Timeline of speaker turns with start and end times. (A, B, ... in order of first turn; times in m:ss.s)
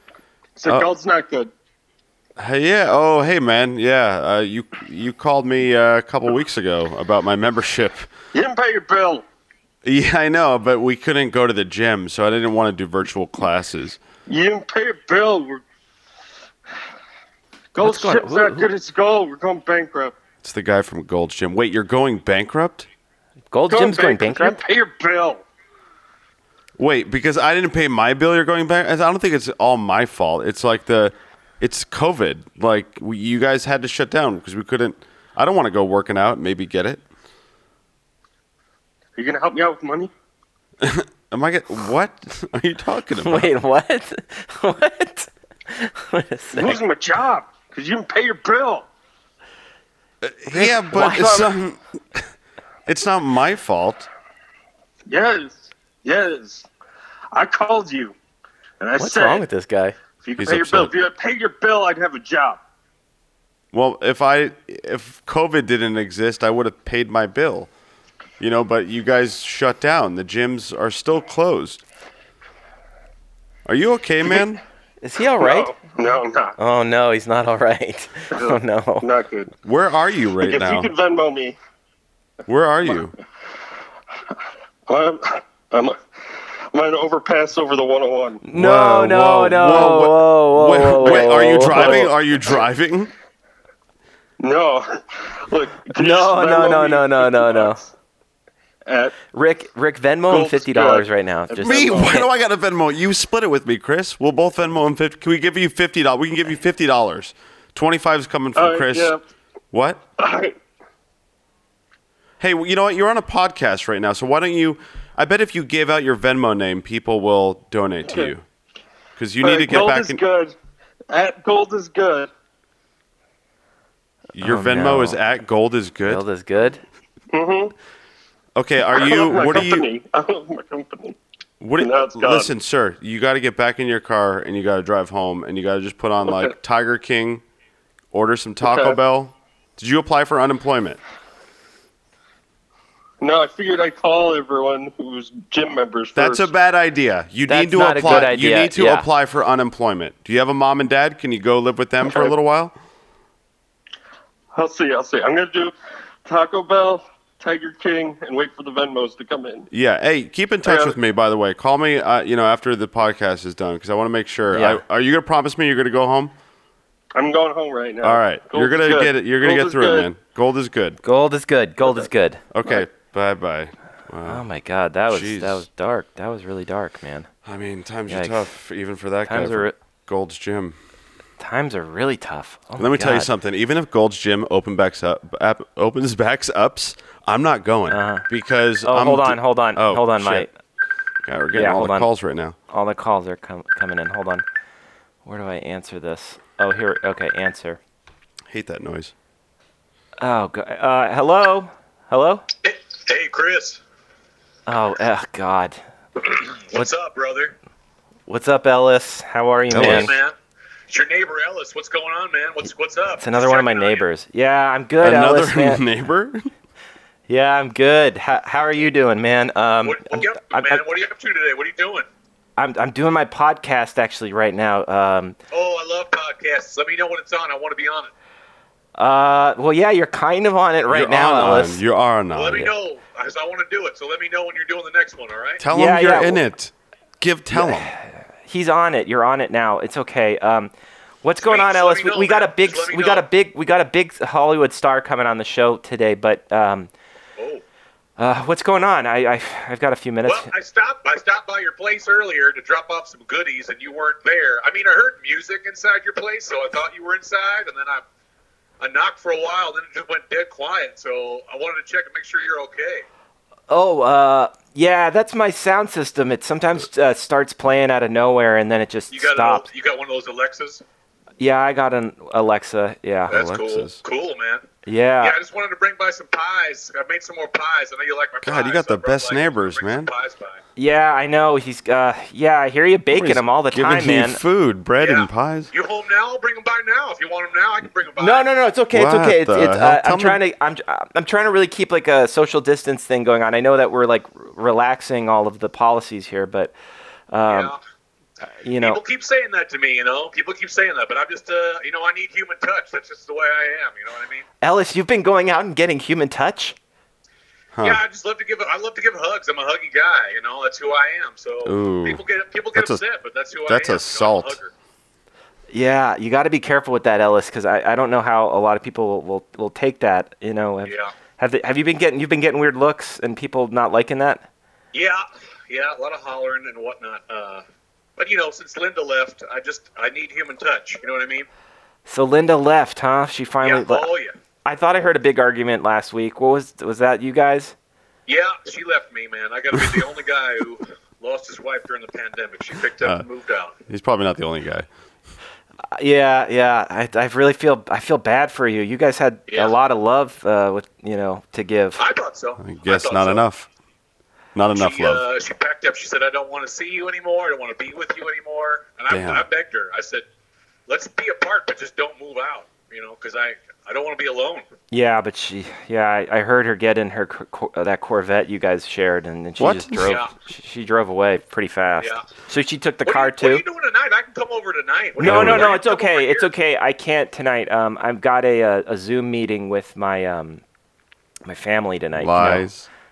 0:00.6-0:01.5 A
0:02.4-0:08.1 B
0:08.3-0:09.3 A
0:09.8-0:14.0 B
0:14.3-0:15.6 A
0:17.7-0:20.2 A
0:17.8-0:18.7 C
0:20.4-0:22.9 B
0:23.5-0:24.6 C
0:23.7-0:25.4 A
0:26.8-0:37.0 B
0:39.2-0:40.1 A
0:40.8-0:43.5 B
0:43.2-0:46.8 C
0:46.5-0:48.9 A
0:50.2-0:52.3 B
0:50.5-0:51.5 C
0:51.0-0:51.4 A
0:52.9-0:54.1 B
0:55.1-0:56.7 A
0:57.3-0:58.2 A
0:58.8-0:59.5 A
0:59.0-1:00.0 C
1:00.2-1:02.6 A
1:00.4-1:00.9 B
1:03.7-1:07.7 B
1:08.4-1:11.8 B
1:13.7-1:14.6 B
1:15.0-1:15.7 C
1:15.4-1:16.6 A
1:16.6-1:19.1 C
1:18.3-1:19.5 A
1:19.6-1:20.9 B
1:20.4-1:21.6 A
1:22.5-1:23.2 B
1:24.9-1:28.4 A
1:28.4-1:32.1 C
1:28.5-1:33.1 B
1:31.0-1:32.6 A
1:34.4-1:37.9 A
1:36.0-1:37.8 C
1:38.8-1:39.2 A
1:39.3-1:42.3 C
1:40.3-1:42.2 A
1:41.6-1:49.2 B
1:48.6-1:49.2 A
1:49.7-1:50.0 B
1:50.2-1:50.6 A
1:52.4-1:58.4 B
1:58.1-1:58.3 A
1:59.2-2:00.2 B
1:59.4-2:00.6 A
2:01.1-2:02.3 A
2:04.3-2:06.2 B
2:04.4-2:05.2 C
2:06.1-2:06.8 C
2:07.3-2:07.7 A
2:08.6-2:09.9 B
2:08.9-2:11.2 A
2:11.6-2:17.4 B
2:11.8-2:12.5 A
2:18.1-2:21.0 B
2:18.6-2:19.0 A
2:23.2-2:26.5 A
2:26.2-2:32.8 B
2:27.5-2:29.1 C
2:32.1-2:32.3 A
2:34.5-2:35.7 A
2:36.2-2:39.7 A
2:39.7-2:46.4 B
2:40.6-2:41.0 A
2:44.5-2:44.8 C
2:47.1-2:50.1 A
2:48.0-2:51.0 B
2:51.0-2:52.4 C
2:52.5-2:54.4 B
2:54.2-2:57.3 C
2:55.1-2:55.6 B
2:57.4-3:00.8 B
2:58.1-2:58.5 C
2:59.3-2:59.8 C
3:01.4-3:03.3 C
3:02.8-3:10.5 B
3:07.9-3:08.2 C
3:08.8-3:10.5 C
3:11.2-3:12.6 B
3:11.5-3:12.1 C
3:12.7-3:14.4 C
3:15.2-3:17.8 C
3:18.5-3:19.1 B
3:20.2-3:22.4 C
3:22.6-3:23.8 D
3:24.7-3:25.8 C
3:26.2-3:27.6 D
3:28.3-3:30.1 C
3:29.7-3:30.1 B
3:29.8-3:30.3 D
3:30.9-3:34.0 D
3:33.2-3:35.8 C
3:35.0-3:36.5 B
3:37.3-3:40.8 C
3:39.8-3:42.1 D
3:42.6-3:45.4 C
3:45.5-3:48.1 D
3:49.0-3:51.8 C
3:50.9-3:52.7 B
3:52.3-3:55.6 D
3:55.6-3:57.9 B
3:55.7-3:56.4 C
3:57.5-4:00.7 C
4:01.2-4:06.9 C
4:01.4-4:03.3 D
4:07.4-4:07.6 D
4:08.2-4:10.5 C
4:10.3-4:18.0 D
4:18.8-4:23.1 D
4:23.7-4:29.7 C
4:29.1-4:30.8 D
4:31.4-4:33.4 C
4:33.3-4:34.6 D
4:33.3-4:34.0 B
4:34.9-4:35.4 C
4:35.2-4:40.6 D
4:38.4-4:40.1 B
4:40.8-4:44.4 C
4:43.1-4:45.7 B
4:45.0-4:48.5 D
4:48.2-4:56.7 C
4:48.9-4:50.4 B
4:57.3-4:57.7 C
4:57.5-4:57.8 D
4:58.6-4:59.0 C
4:58.8-5:04.4 D
5:04.6-5:06.8 C
5:07.8-5:08.0 B
5:07.8-5:14.7 D
5:11.6-5:12.2 B
5:12.7-5:13.0 B
5:13.7-5:14.6 B
5:15.7-5:24.5 C
5:20.9-5:21.1 D
5:24.9-5:27.6 D
5:28.2-5:31.5 D
5:32.1-5:34.1 C
5:33.6-5:34.3 D
5:34.6-5:37.8 C
5:38.3-5:43.8 D
5:43.9-5:44.9 B
5:46.0-5:52.0 C
5:49.5-5:49.7 D
5:52.0-5:53.4 D
5:52.6-5:53.7 B
5:54.6-5:55.2 B
5:54.8-6:00.2 D
5:59.1-5:59.4 B
6:00.9-6:04.6 D
6:04.9-6:13.6 C
6:09.6-6:10.2 B
6:10.0-6:10.3 D
6:13.0-6:16.5 D
6:15.2-6:20.6 C
6:15.2-6:15.7 B
6:21.5-6:22.7 C
6:22.2-6:22.9 B